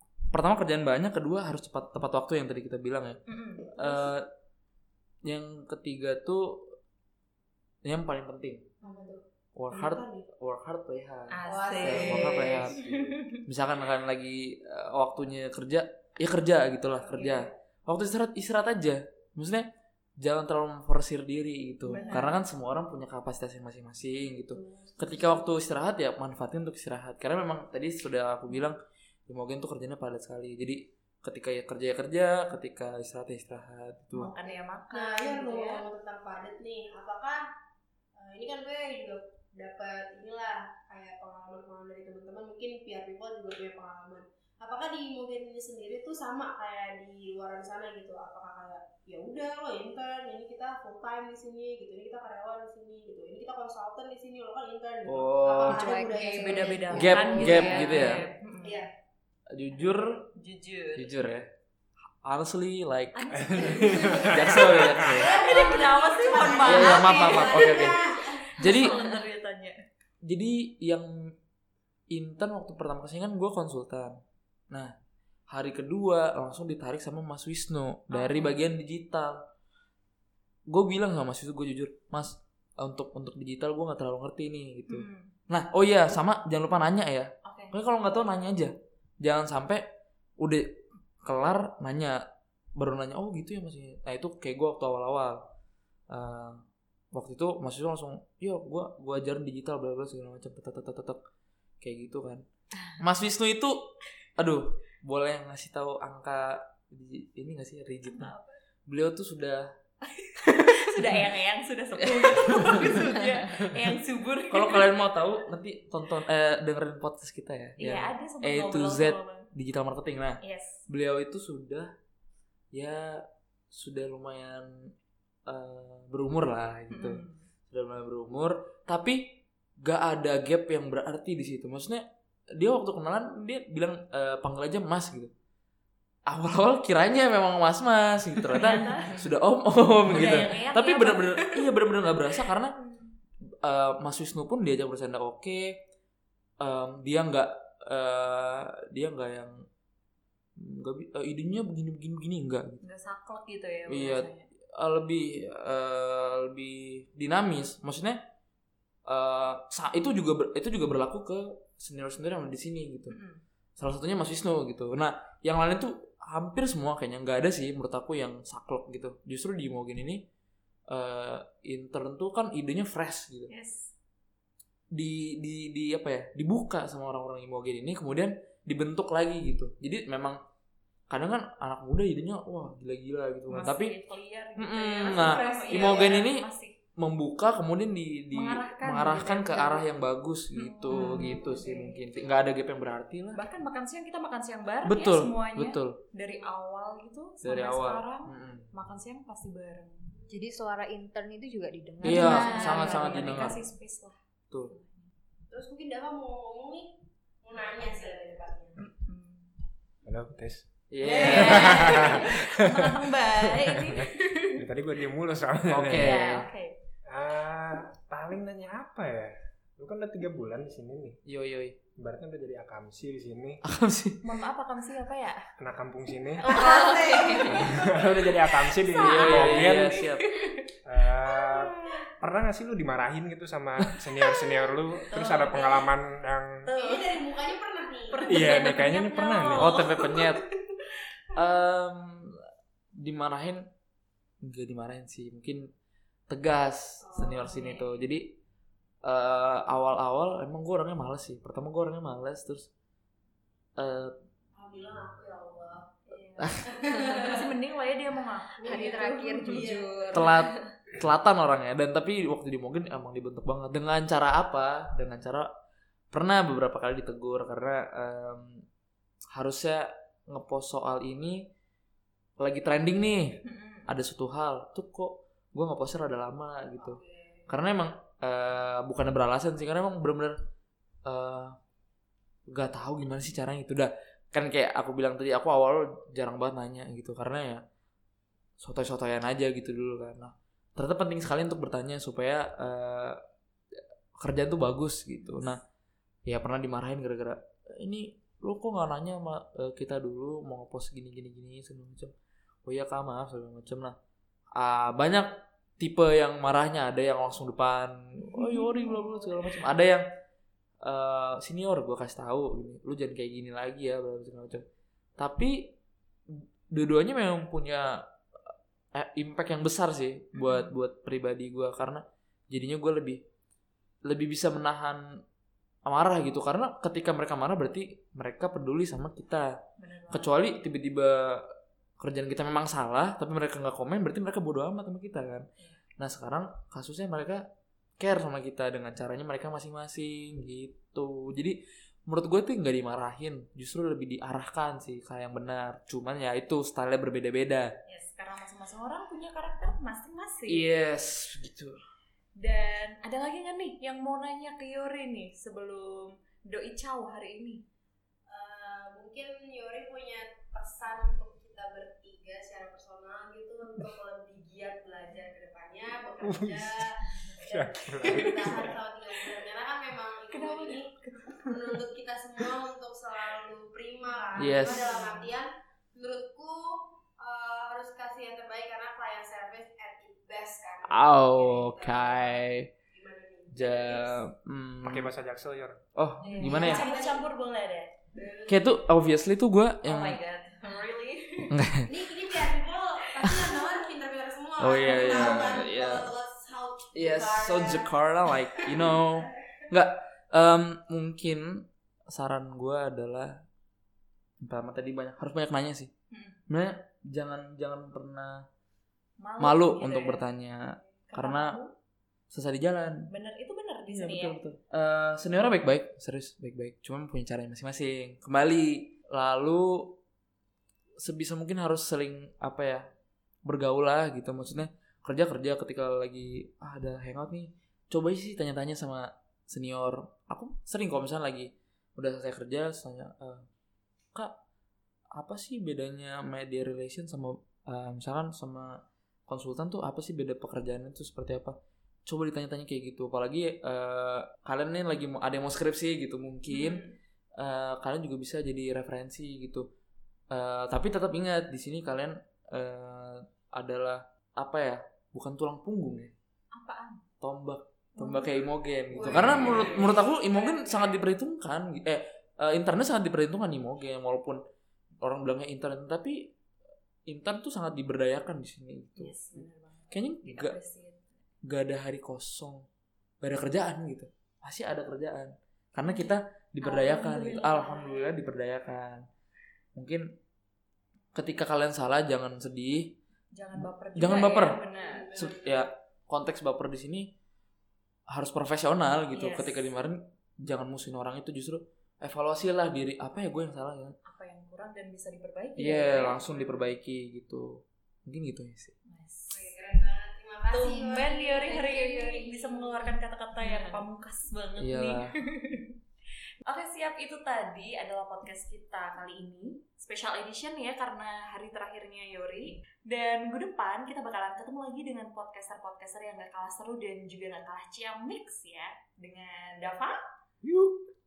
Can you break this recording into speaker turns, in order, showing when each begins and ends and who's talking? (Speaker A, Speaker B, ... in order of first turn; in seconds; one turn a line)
Speaker A: 0.3-3.2
Speaker B: 3.3-4.1
Speaker A: 3.8-4.3
Speaker A: 5.2-6.8
Speaker A: 7.8-8.7
Speaker C: 8.8-10.2
Speaker B: 8.8-9.2
Speaker A: 9.5-19.7
Speaker B: 11.3-13.4
Speaker C: 11.4-12.8
Speaker C: 17.0-17.5
Speaker A: 20.2-34.4
Speaker B: 21.9-22.4
Speaker C: 21.9-22.3
Speaker C: 24.5-25.5
Speaker B: 34.1-35.9
Speaker C: 34.4-37.4
Speaker C: 38.1-58.9
Speaker A: 55.0-55.8
Speaker D: 55.6-57.7
Speaker B: 56.2-58.9
Speaker A: 56.9-58.2
Speaker A: 59.5-60.3
Speaker B: 60.3-61.1
Speaker A: 61.0-61.5
Speaker A: 62.2-65.6
Speaker B: 63.1-69.8
Speaker C: 63.5-64.3
Speaker E: 63.5-64.8
Speaker C: 65.0-68.8
Speaker A: 66.5-69.0
Speaker A: 70.2-71.3
Speaker A: 72.1-74.2
Speaker A: 75.5-79.4
Speaker B: 78.1-78.6
Speaker A: 80.7-89.9
Speaker B: 84.9-85.3
Speaker B: 87.4-87.8
Speaker A: 90.4-92.2
Speaker A: 92.8-95.4
Speaker A: 96.1-96.6
Speaker A: 97.1-101.2
Speaker A: 101.8-108.3
Speaker B: 108.1-108.6
Speaker A: 108.9-109.7
Speaker B: 110.2-115.0
Speaker A: 112.0-113.2
Speaker A: 114.5-121.9
Speaker B: 117.8-119.5
Speaker B: 120.4-120.8
Speaker A: 122.7-124.9
Speaker A: 125.5-135.3
Speaker B: 126.9-127.4
Speaker A: 136.3-142.8
Speaker B: 138.5-139.2
Speaker B: 140.1-141.7
Speaker B: 142.4-143.1
Speaker A: 143.6-145.8
Speaker A: 146.6-149.6
Speaker A: 150.6-152.8
Speaker B: 152.8-154.4
Speaker A: 153.9-158.2
Speaker A: 159.1-163.2
Speaker B: 163.1-163.4
Speaker A: 163.8-170.2
Speaker A: 170.9-173.5
Speaker B: 173.5-173.9
Speaker A: 174.9-180.4
Speaker A: 181.1-183.9
Speaker B: 183.5-186.8
Speaker A: 184.6-193.4
Speaker C: 185.1-186.2
Speaker B: 188.3-189.8
Speaker B: 190.5-192.0
Speaker C: 191.0-191.3
Speaker B: 193.3-200.1
Speaker A: 194.8-196.0
Speaker A: 197.4-198.7
Speaker D: 200.3-203.5
Speaker B: 202.0-205.1
Speaker A: 202.0-203.6
Speaker C: 205.5-208.8
Speaker B: 207.6-209.4
Speaker E: 210.0-216.3
Speaker A: 210.9-212.3
Speaker B: 211.0-214.6
Speaker C: 211.0-211.8
Speaker A: 215.7-216.5
Speaker B: 215.9-216.8
Speaker E: 217.1-221.2
Speaker A: 221.2-221.8
Speaker E: 222.0-223.6
Speaker A: 223.6-224.2
Speaker B: 224.2-225.4
Speaker E: 225.6-226.7
Speaker B: 226.4-228.0
Speaker C: 226.4-228.1
Speaker E: 227.4-230.0
Speaker B: 228.7-230.7
Speaker A: 229.0-230.3
Speaker E: 230.8-236.7
Speaker B: 231.3-232.0
Speaker B: 234.4-235.9
Speaker B: 236.7-237.2
Speaker C: 236.7-238.5
Speaker B: 238.1-240.2
Speaker E: 238.2-239.8
Speaker A: 239.5-240.4
Speaker A: 241.3-242.4
Speaker A: 243.0-243.7
Speaker A: 244.4-245.7
Speaker A: 246.3-248.3
Speaker C: 247.0-247.5
Speaker B: 247.4-247.9
Speaker A: 249.0-252.7
Speaker A: 253.8-254.1
Speaker C: 254.5-256.0
Speaker B: 256.1-259.7
Speaker A: 256.4-256.8
Speaker C: 256.6-257.5
Speaker C: 258.6-260.4
Speaker D: 258.6-260.5
Speaker A: 260.1-265.5
Speaker A: 266.1-268.6
Speaker A: 269.3-271.4
Speaker A: 272.4-280.4
Speaker B: 273.4-273.9
Speaker C: 276.8-277.4
Speaker A: 281.1-281.6
Speaker A: 282.5-287.6
Speaker A: 288.6-293.2
Speaker A: 294.2-295.6
Speaker B: 295.2-295.5
Speaker A: 296.3-302.1
Speaker A: 302.7-303.9
Speaker A: 304.6-310.0
Speaker B: 308.2-309.4
Speaker A: 310.8-314.6
Speaker A: 315.2-315.8
Speaker A: 316.3-318.0
Speaker A: 318.9-323.2
Speaker B: 320.3-320.8
Speaker A: 324.1-325.2
Speaker A: 325.9-329.6
Speaker B: 329.8-330.3
Speaker A: 330.1-335.5
Speaker A: 336.0-337.5
Speaker A: 338.0-347.8
Speaker B: 347.9-350.6
Speaker A: 350.5-351.8
Speaker B: 352.4-357.6
Speaker C: 358.3-382.4
Speaker E: 366.2-366.8
Speaker E: 367.4-368.8
Speaker B: 368.0-368.6
Speaker B: 370.3-371.8
Speaker B: 374.3-375.3
Speaker A: 374.4-374.9
Speaker A: 380.9-382.7
Speaker C: 382.9-384.2
Speaker A: 383.5-385.1
Speaker E: 384.8-385.8
Speaker A: 385.9-386.9
Speaker B: 386.2-387.9
Speaker C: 386.4-387.2
Speaker C: 388.1-388.8
Speaker A: 388.5-390.2
Speaker B: 389.8-391.6
Speaker A: 391.5-391.9
Speaker C: 391.9-397.9
Speaker A: 393.2-393.6
Speaker A: 394.6-396.1
Speaker B: 395.1-395.5
Speaker A: 396.9-403.4
Speaker C: 398.5-399.5
Speaker A: 404.4-405.9
Speaker B: 406.1-406.4
Speaker A: 406.5-408.4
Speaker B: 409.2-410.2
Speaker A: 409.4-411.6
Speaker B: 411.1-411.7
Speaker A: 412.3-413.1
Speaker B: 413.1-414.4
Speaker A: 413.9-420.0
Speaker A: 421.0-422.9
Speaker A: 423.4-433.5
Speaker A: 435.1-446.8
Speaker B: 446.5-446.9
Speaker A: 447.4-449.6
Speaker A: 450.3-456.1
Speaker B: 456.5-457.0
Speaker A: 457.2-464.4
Speaker B: 458.0-458.3
Speaker C: 458.9-461.0
Speaker B: 459.0-460.1
Speaker A: 465.0-466.3
Speaker A: 467.1-470.5
Speaker B: 469.0-471.1
Speaker A: 471.4-472.7
Speaker A: 473.2-479.0
Speaker B: 475.9-478.2
Speaker A: 479.8-480.1
Speaker A: 481.1-483.0
Speaker B: 483.3-485.2
Speaker A: 483.6-484.6
Speaker C: 484.8-485.7
Speaker A: 485.1-487.1
Speaker A: 488.1-493.9
Speaker B: 489.1-489.6
Speaker B: 494.0-496.6
Speaker A: 495.6-498.7
Speaker B: 498.8-499.5
Speaker C: 499.3-503.0
Speaker B: 500.5-505.7
Speaker A: 504.6-505.2
Speaker B: 506.5-520.0
Speaker A: 520.4-520.8